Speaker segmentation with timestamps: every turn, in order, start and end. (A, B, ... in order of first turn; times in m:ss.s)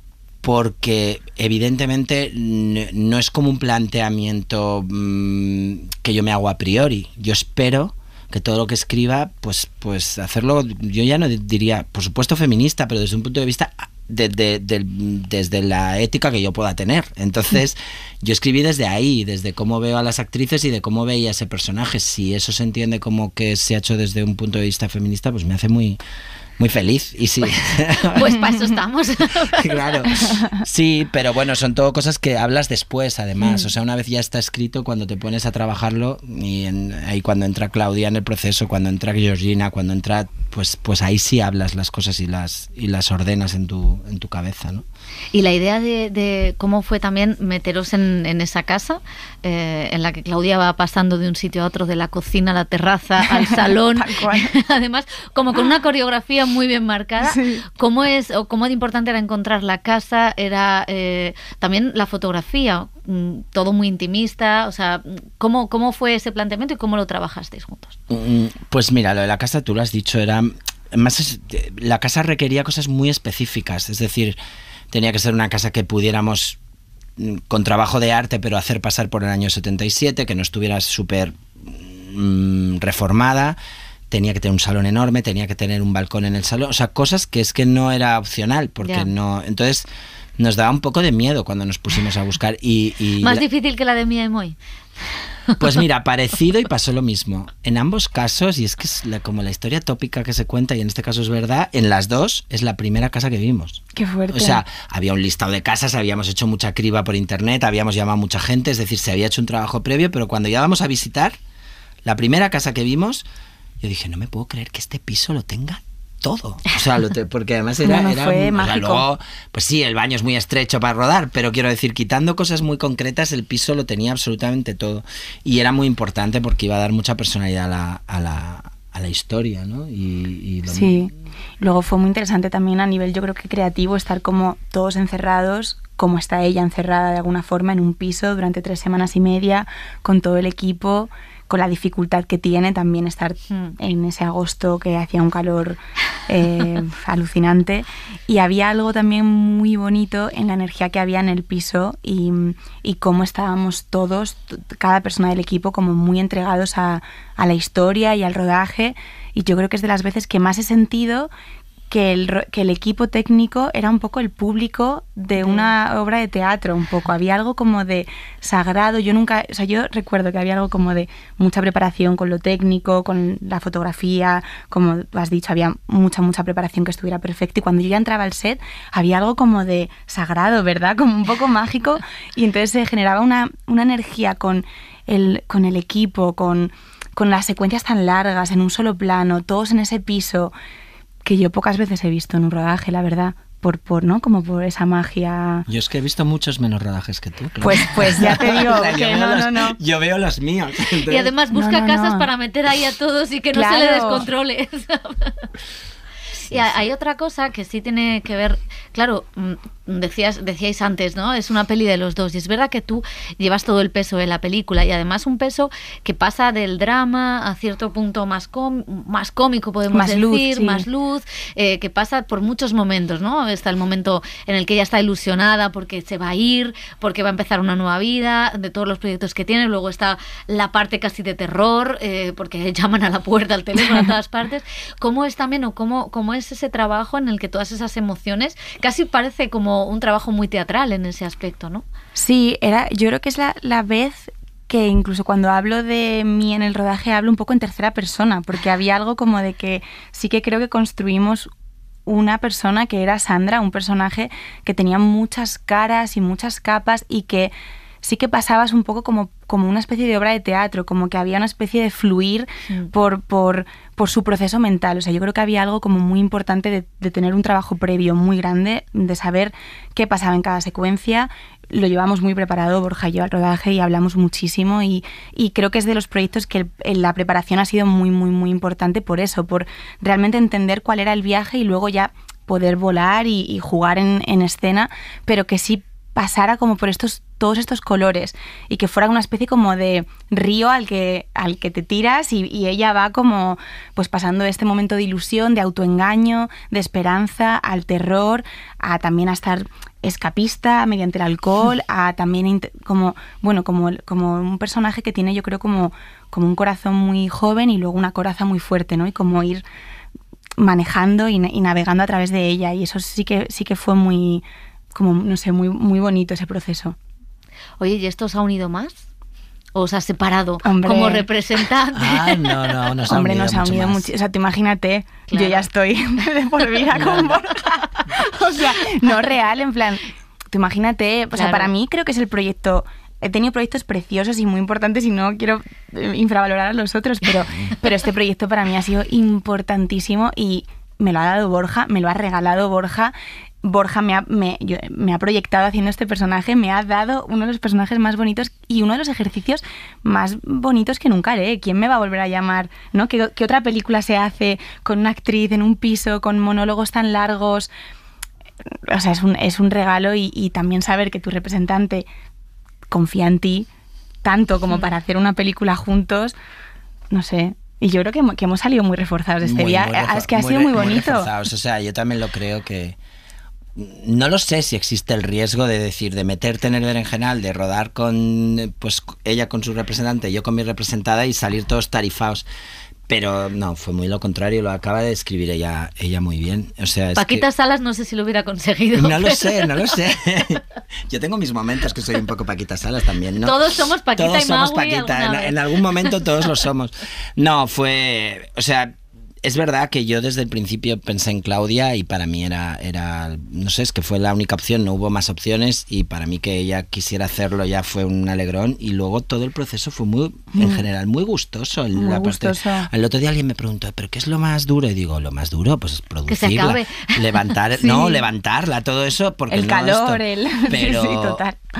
0:00.4-0:26.0 A
0:26.6-0:28.4 A
0:28.1-0:30.0 B
0:29.5-0:44.8 A
0:45.3-1:08.0 B
0:53.2-0:54.5 C
0:57.2-0:57.6 C
1:08.1-1:14.4 A
1:14.9-1:16.6 A
1:17.2-1:23.6 A
1:24.1-1:29.9 A
1:28.8-1:29.1 B
1:30.4-1:33.4 A
1:33.2-1:34.6 B
1:35.6-1:51.4 A
1:44.0-1:44.6 C
1:52.0-1:53.2 A
1:53.8-2:11.1 A
1:57.8-1:59.1 C
2:10.7-2:41.3 C
2:41.9-3:10.6 C
2:45.4-2:45.8 B
3:11.2-3:15.6 C
3:15.7-3:21.3 A
3:17.6-3:19.8 C
3:21.1-3:25.4 B
3:21.5-3:22.3 C
3:23.5-3:24.3 C
3:26.5-4:01.9 B
3:26.5-3:26.8 A
3:39.9-3:40.9 C
4:02.2-4:11.5 C
4:12.1-5:09.6 C
5:10.6-5:17.0 C
5:17.8-5:19.0 B
5:19.8-5:22.9 B
5:20.6-5:21.3 C
5:22.0-5:24.1 A
5:23.1-5:57.7 C
5:25.3-5:25.7 B
5:31.3-5:31.7 B
5:58.9-6:02.1 C
6:02.9-6:03.7 C
6:04.2-6:06.4 C
6:07.1-6:11.3 C
6:09.4-6:13.0 A
6:13.8-6:22.5 A
6:23.1-6:27.5 A
6:27.2-6:30.0 B
6:28.9-6:33.6 A
6:33.4-6:36.2 B
6:34.2-7:01.4 A
6:50.5-6:50.8 C
6:51.9-6:52.9 C
6:56.3-6:57.6 B
6:57.8-6:58.2 C
6:59.5-7:01.6 C